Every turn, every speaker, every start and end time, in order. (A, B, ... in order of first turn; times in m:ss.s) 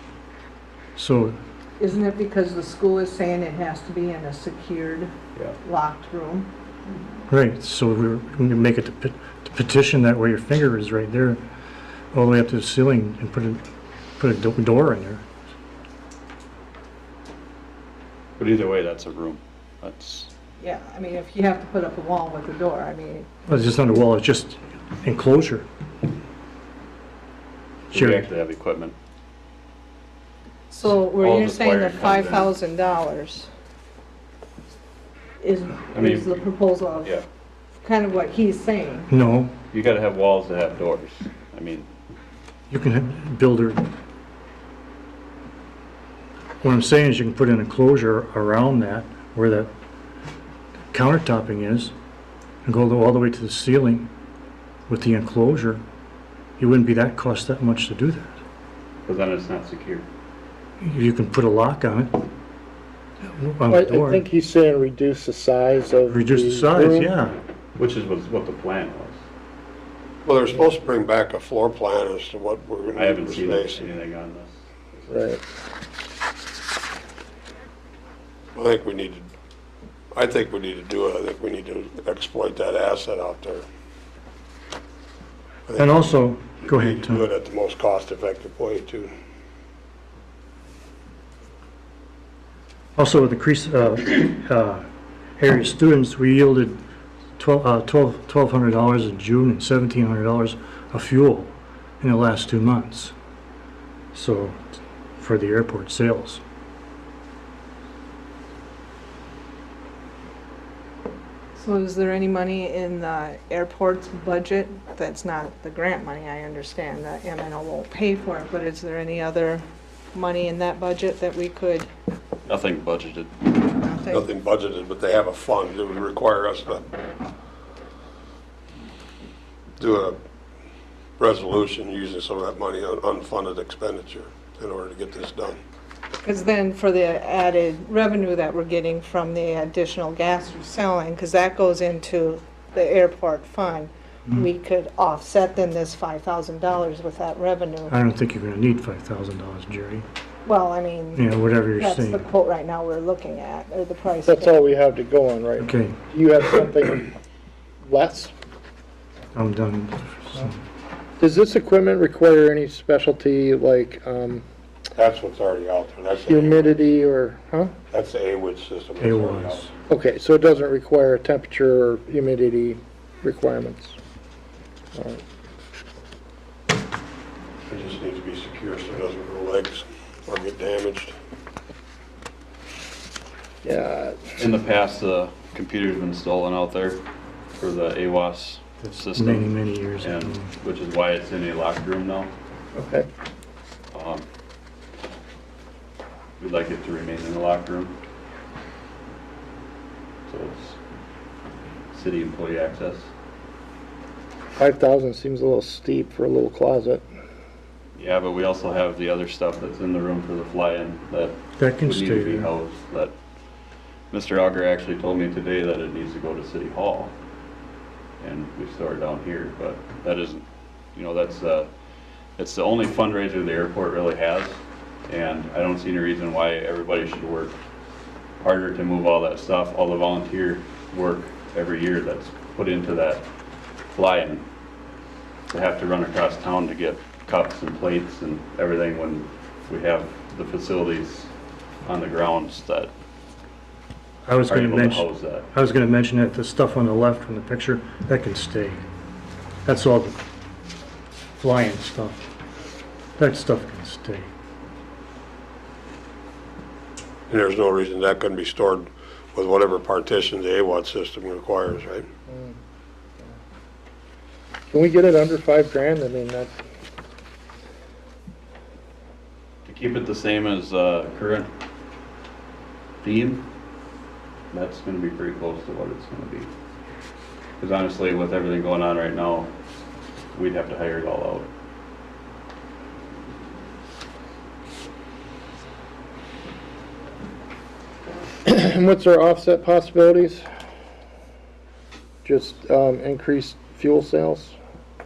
0:01.0-0:01.4 A
0:01.8-0:05.1 B
0:05.6-0:06.5 B
0:07.3-0:11.4 A
0:12.1-0:13.6 A
0:14.2-0:15.2 A
0:18.4-0:20.3 C
0:20.6-0:23.3 B
0:23.5-0:25.7 A
0:27.9-0:29.0 C
0:27.9-0:28.3 A
0:30.7-0:33.5 B
0:31.2-0:32.5 C
0:35.4-0:37.1 B
0:35.9-0:36.4 C
0:37.8-0:39.1 B
0:39.1-0:39.6 A
0:39.7-0:41.9 C
0:42.7-0:43.8 A
0:46.6-0:49.7 A
0:50.9-0:51.9 A
0:52.6-0:54.1 A
0:54.9-0:55.8 A
0:56.6-0:58.4 A
0:59.0-1:00.1 C
1:00.8-1:02.2 A
1:03.3-1:04.2 A
1:03.7-1:07.1 D
1:06.1-1:07.4 A
1:07.8-1:09.2 C
1:10.2-1:13.9 E
1:13.0-1:15.1 C
1:15.1-1:15.4 D
1:18.6-1:19.3 E
1:20.1-1:23.7 E
1:25.7-1:29.1 E
1:25.8-1:27.3 A
1:33.0-1:34.9 A
1:35.4-1:36.8 A
1:37.4-1:43.1 A
1:44.1-1:44.6 A
1:45.2-1:46.4 A
1:51.6-2:01.9 B
2:02.4-2:03.3 C
2:03.8-2:04.2 B
2:04.1-2:06.8 E
2:09.8-2:10.2 E
2:11.2-2:15.6 E
2:16.2-2:27.9 B
2:27.9-2:30.1 A
2:30.4-2:34.6 B
2:31.2-2:32.2 A
2:34.2-2:37.1 D
2:35.6-2:36.0 A
2:37.8-2:38.3 D
2:39.3-2:40.6 A
2:41.2-2:44.4 D
2:44.9-2:46.8 E
2:46.2-2:47.8 D
2:47.9-2:49.7 E
2:49.0-2:49.7 A
2:49.9-2:54.0 D
2:54.9-2:55.2 D
2:57.7-3:01.2 E
3:03.6-3:04.2 D
3:04.4-3:07.0 C
3:07.6-3:12.3 C
3:08.8-3:10.5 A
3:12.8-3:13.1 D
3:13.9-3:14.2 C
3:16.4-3:18.0 C
3:20.3-3:20.8 C
3:21.9-3:23.1 C
3:24.6-3:27.0 D
3:28.0-3:33.2 C
3:31.6-3:32.5 A
3:34.1-3:37.2 C
3:38.2-3:41.7 C
3:42.4-3:47.6 C
3:48.4-3:53.2 C
3:53.9-3:54.5 C
3:55.5-4:01.3 C
4:01.8-4:02.9 C
4:04.2-4:08.8 A
4:04.5-4:05.5 C
4:09.6-4:10.2 A
4:11.4-4:12.2 A
4:13.2-4:14.3 A
4:17.3-4:22.1 E
4:24.7-4:26.6 D
4:29.6-4:31.5 C
4:33.0-4:33.4 C
4:34.5-4:36.5 C
4:37.6-4:39.5 C
4:40.3-4:41.5 C
4:48.4-4:50.5 D
4:52.2-4:54.6 D